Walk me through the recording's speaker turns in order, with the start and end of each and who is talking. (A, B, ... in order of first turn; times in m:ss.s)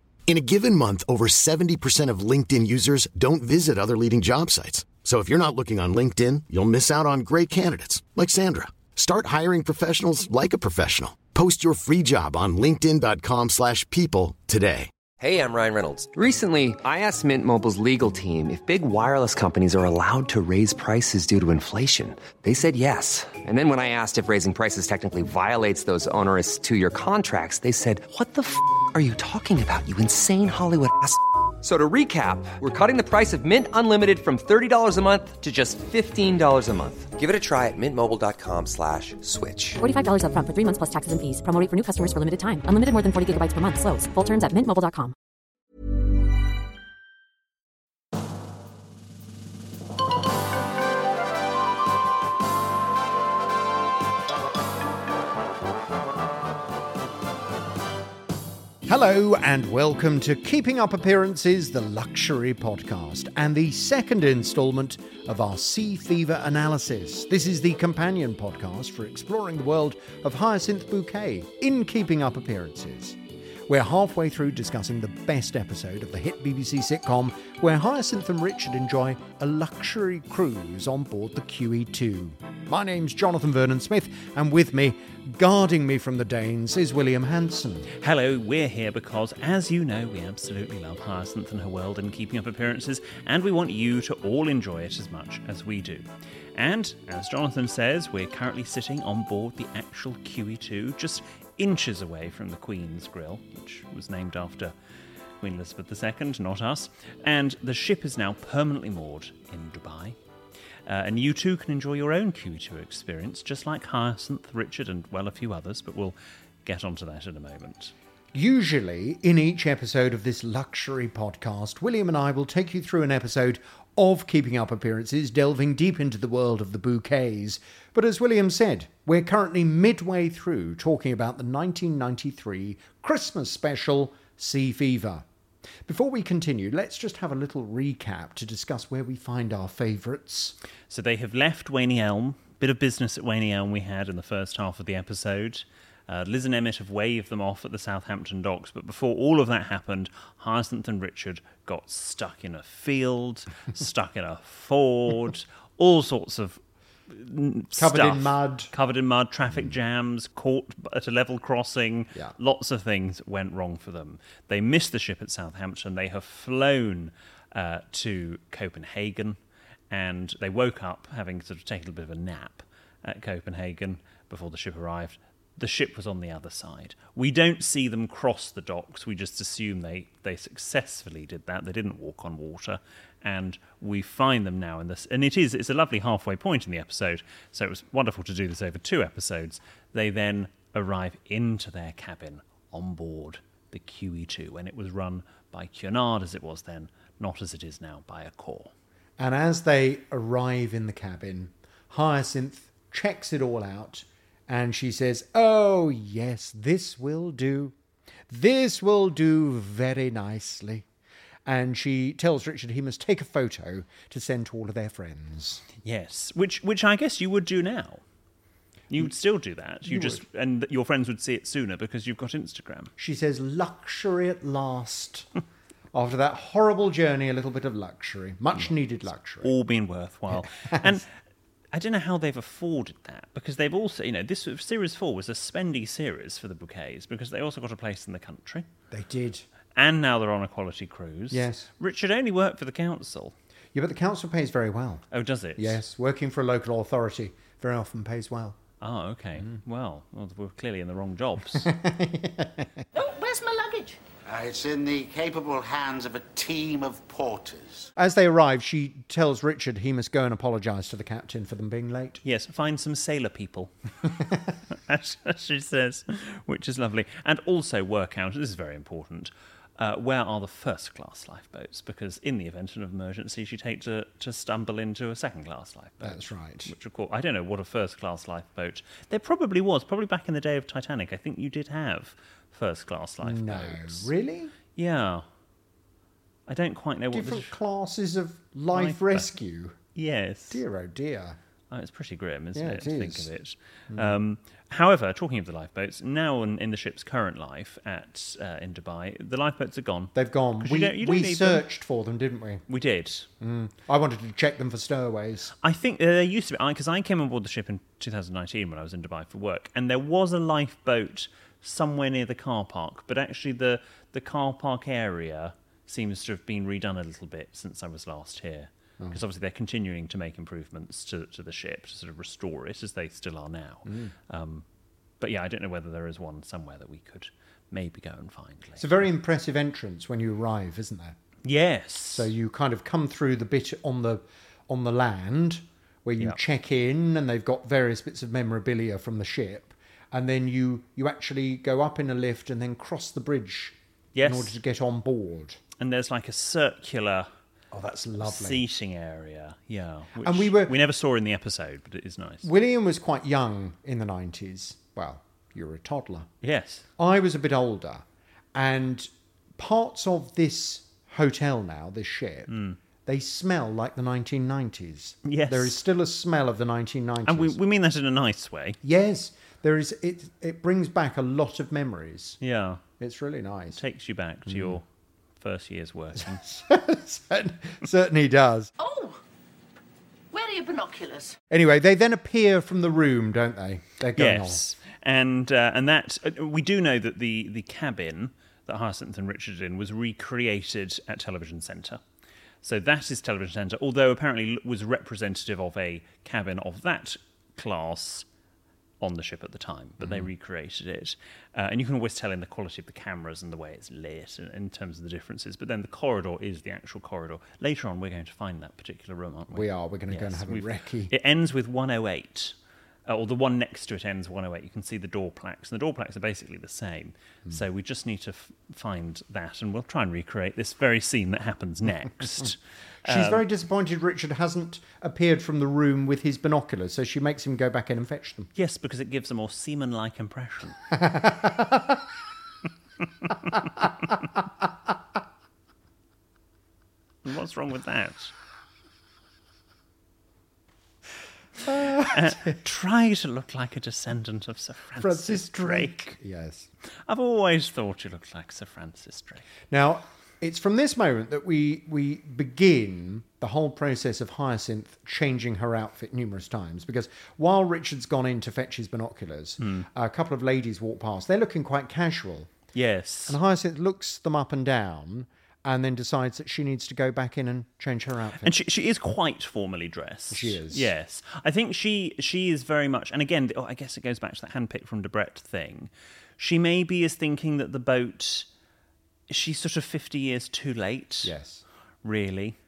0:00.3-0:14.9 A
0:15.2-0:39.8 B
0:39.8-0:45.1 C
0:58.8-1:27.9 D
1:28.0-1:44.7 E
1:45.4-1:50.2 E
1:50.8-1:57.9 E
1:58.3-2:15.2 D
2:15.8-2:20.6 D
2:20.9-2:49.4 E
2:37.8-2:38.7 D
2:49.9-3:18.7 E
3:19.2-3:27.7 D
3:28.3-3:30.8 D
3:31.4-3:35.6 D
3:35.8-3:38.0 E
3:38.9-3:42.9 E
3:39.8-3:40.2 D
3:43.0-3:45.3 D
3:45.9-3:49.5 D
3:49.4-3:51.1 E
3:50.3-3:51.0 D
3:51.7-3:58.7 E
3:58.9-3:59.4 D
3:59.8-4:03.3 E
4:01.3-4:01.7 D
4:03.7-4:05.0 D
4:05.1-4:05.8 E
4:05.6-4:08.6 D
4:08.8-4:11.7 E
4:11.5-4:12.8 D
4:12.9-4:14.0 F
4:14.2-4:17.9 G
4:18.0-4:22.2 D
4:22.2-4:23.7 E
4:24.7-4:44.1 E
4:36.0-4:36.7 D
4:43.2-4:44.5 D
4:44.8-4:45.2 E
4:46.5-4:47.5 E
4:47.1-4:49.8 D
4:48.7-4:49.3 E
4:49.9-4:50.6 E
4:50.5-4:51.4 D
4:51.7-5:01.6 E
4:52.5-4:53.3 D
4:53.9-4:54.2 D
5:00.1-5:02.6 D
5:02.7-5:03.3 E
5:03.4-5:05.5 D
5:05.6-5:24.6 E
5:23.8-5:24.1 D
5:25.2-5:29.0 E
5:28.8-5:31.2 D
5:31.4-5:32.3 E
5:32.1-5:45.6 D
5:44.1-5:44.6 E
5:45.8-5:47.3 E
5:47.7-5:48.6 D
5:48.2-5:52.5 E
5:50.2-5:50.8 D
5:52.4-5:56.3 D
5:56.4-5:56.9 E
5:57.0-6:02.5 D
6:02.5-6:02.8 E
6:03.0-6:07.6 D
6:05.2-6:05.8 E
6:07.2-6:08.8 E
6:08.8-6:12.4 D
6:12.4-6:12.8 E
6:13.0-6:13.8 D
6:13.7-6:14.8 E
6:14.5-6:14.8 D
6:15.4-6:16.4 E
6:16.2-6:18.7 D
6:18.8-6:19.2 F
6:20.3-6:21.4 F
6:21.5-6:24.6 D
6:24.2-6:32.0 E
6:32.6-6:38.2 E
6:39.0-6:52.5 E
6:40.0-6:40.3 D
6:49.5-6:51.1 D
6:53.1-7:03.4 E
7:03.0-7:08.5 D
7:08.6-7:10.8 E
7:10.9-7:12.0 D
7:17.2-7:18.3 E
7:21.6-7:22.3 D
7:21.9-7:26.2 E
7:25.0-7:26.7 D
7:27.1-7:29.5 E
7:29.7-7:42.5 D
7:39.6-7:39.9 E
7:42.7-7:43.4 E
7:43.3-7:48.5 D
7:48.4-7:58.5 E
7:50.3-7:50.9 D
7:59.3-8:01.3 E
8:01.2-8:01.6 D
8:02.0-8:02.6 E